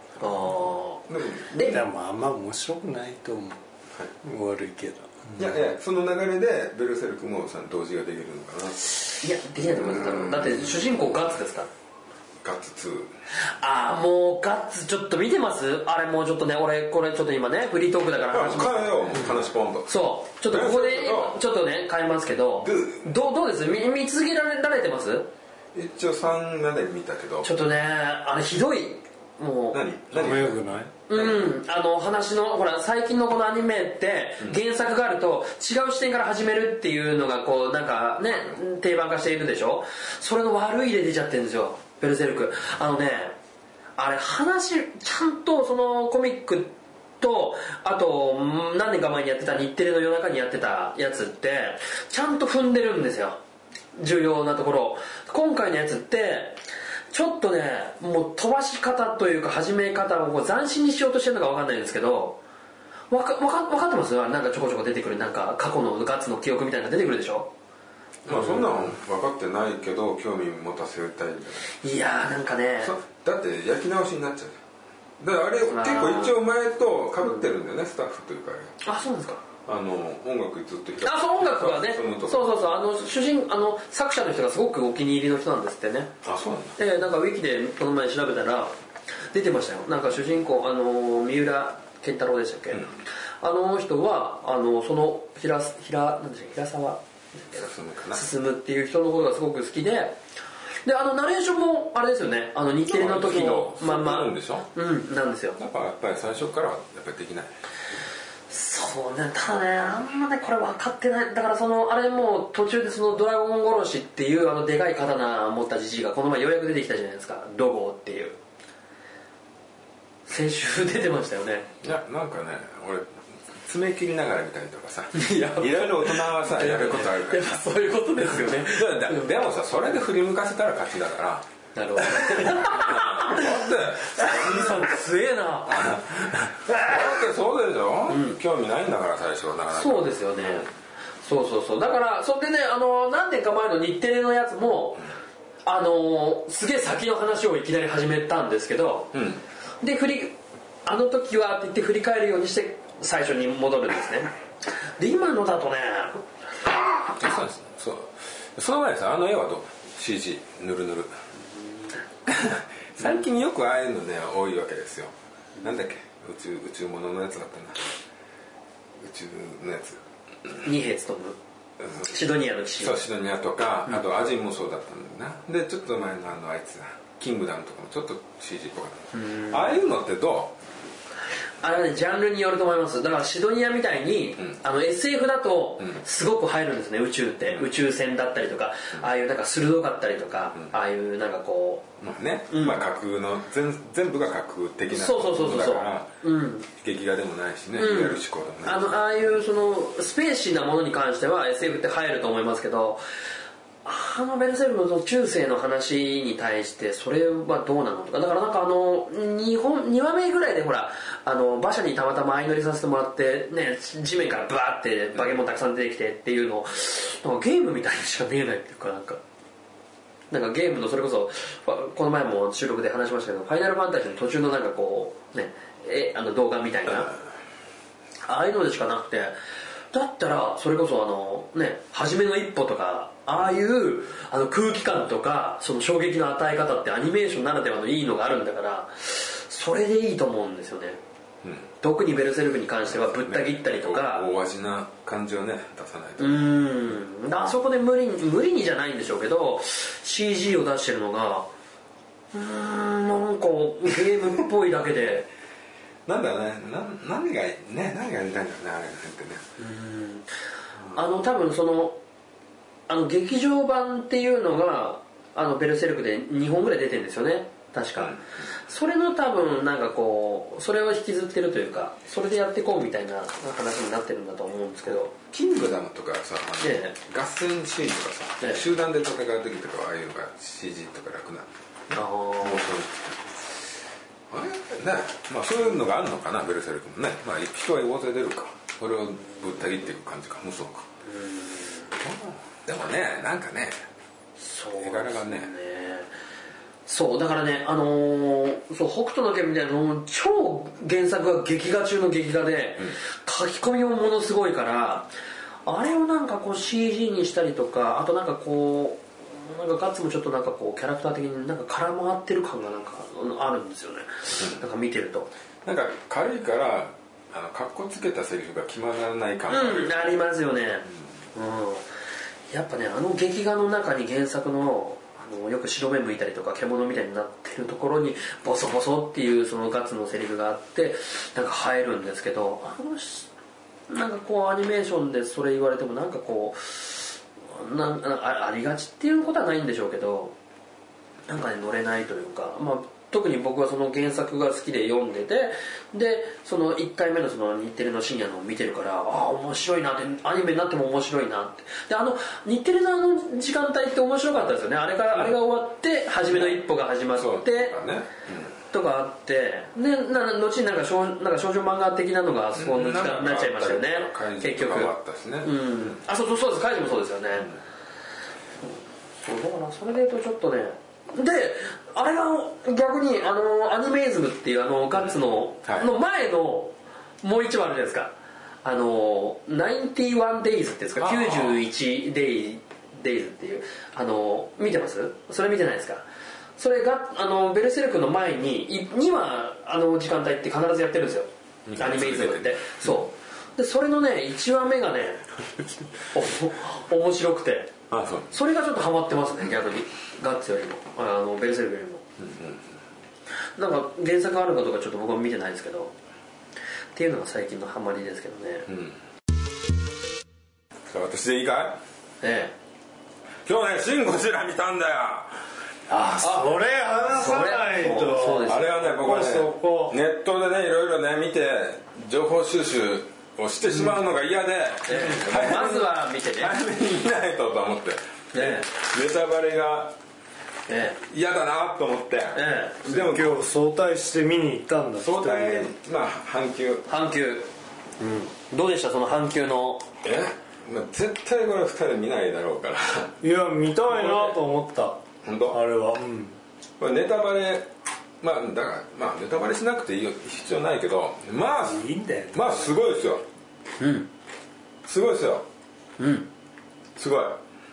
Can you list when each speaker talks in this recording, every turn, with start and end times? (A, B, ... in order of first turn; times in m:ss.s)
0:00.2-0:01.8 A
0:01.1-0:01.8 B
0:01.6-0:03.6 C
0:04.2-0:05.4 C
0:05.4-0:08.9 B
0:09.2-0:11.7 A
0:12.4-0:13.1 B
0:13.5-0:19.3 A
0:18.3-0:19.9 B
0:19.9-0:25.3 A
0:20.5-0:21.4 B
0:22.6-0:23.1 B
0:25.7-0:27.5 B
0:27.4-0:29.8 A
0:29.7-0:30.6 B
0:30.1-0:30.9 C
0:31.1-0:43.3 A
0:31.1-0:31.5 B
0:44.0-0:53.4 A
0:54.0-0:56.6 A
0:57.1-1:02.4 A
1:03.1-1:07.5 A
1:08.2-1:11.7 B
1:08.3-1:08.9 A
1:11.8-1:12.9 A
1:12.8-1:14.6 B
1:15.2-1:18.8 B
1:15.7-1:16.4 A
1:18.8-1:19.4 A
1:19.6-1:22.4 B
1:21.0-1:26.1 A
1:26.2-1:26.8 B
1:26.8-1:28.7 A
1:29.3-1:32.9 A
1:33.4-1:40.2 A
1:37.5-1:38.2 B
1:40.8-1:45.6 A
1:42.8-1:44.7 B
1:45.6-1:47.5 B
1:48.5-1:58.4 A
2:00.3-2:01.7 A
2:01.8-2:07.5 B
2:05.1-2:09.3 A
2:08.5-2:11.4 B
2:11.7-2:15.9 A
2:12.0-2:15.0 B
2:15.7-2:20.7 B
2:18.1-2:18.4 A
2:19.7-2:20.7 A
2:21.2-2:25.0 A
2:25.6-2:29.1 A
2:29.1-2:29.4 B
2:29.8-2:34.3 A
2:35.0-2:37.2 A
2:37.2-2:41.2 B
2:42.2-2:47.9 B
2:49.0-2:50.0 B
2:50.6-2:51.4 A
2:52.0-2:53.0 A
2:52.8-3:00.6 B
2:59.1-2:59.7 A
3:01.6-3:11.8 A
3:12.0-3:16.1 B
3:12.5-3:12.8 A
3:14.9-3:16.7 A
3:16.7-3:18.9 B
3:17.8-3:23.0 A
3:23.8-3:39.2 A
3:40.3-3:47.1 A
3:48.2-3:49.3 A
3:49.9-4:01.0 A
4:01.4-4:01.7 B
4:01.8-4:04.3 A
4:02.9-4:06.6 B
4:06.2-4:11.5 A
4:12.3-4:15.3 A
4:16.0-4:19.4 B
4:19.6-4:20.3 A
4:20.9-4:22.0 A
4:22.9-4:35.1 A
4:28.0-4:28.2 B
4:35.3-4:41.5 B
4:36.6-4:37.0 A
4:41.9-4:42.7 A
4:42.4-4:43.2 B
4:44.3-4:50.9 B
4:51.0-4:51.9 A
4:51.9-4:53.8 B
4:54.4-4:56.1 A
4:54.8-4:55.5 B
4:56.9-5:05.1 A
5:05.6-5:15.3 A
5:15.6-5:20.2 B
5:19.5-5:21.8 A
5:22.5-5:33.3 A
5:33.9-5:40.3 A
5:41.3-5:57.7 A
5:56.3-5:58.5 B
5:58.7-6:07.5 A
6:02.5-6:06.0 B
6:09.2-6:26.0 A
6:21.0-6:21.6 B
6:26.6-6:35.2 A
6:31.6-6:33.0 B
6:36.1-6:37.7 A
6:37.9-6:38.3 B
6:38.3-6:42.0 A
6:42.2-6:42.6 B
6:43.6-6:45.9 A
6:46.9-6:48.7 A
6:48.7-6:49.0 B
6:50.9-6:51.8 B
6:52.2-6:52.5 A
6:53.4-6:55.4 B
6:55.9-7:00.0 C
6:56.2-6:56.5 A
6:57.1-6:58.7 A
6:58.5-7:10.0 B
7:04.9-7:06.5 A
7:08.3-7:08.7 A
7:10.7-7:11.0 A
7:11.0-7:13.5 B
7:12.3-7:13.0 A
7:12.9-7:15.7 C
7:15.0-7:16.9 B
7:16.9-7:19.8 A
7:20.0-7:23.2 B
7:23.2-7:26.4 C
7:23.9-7:24.4 B
7:25.2-7:25.6 B
7:26.8-7:27.7 B
7:28.2-7:33.2 B
7:31.6-7:32.8 C
7:33.8-7:34.1 A
7:34.8-7:35.4 B
7:36.0-7:36.3 A
7:37.0-7:37.4 B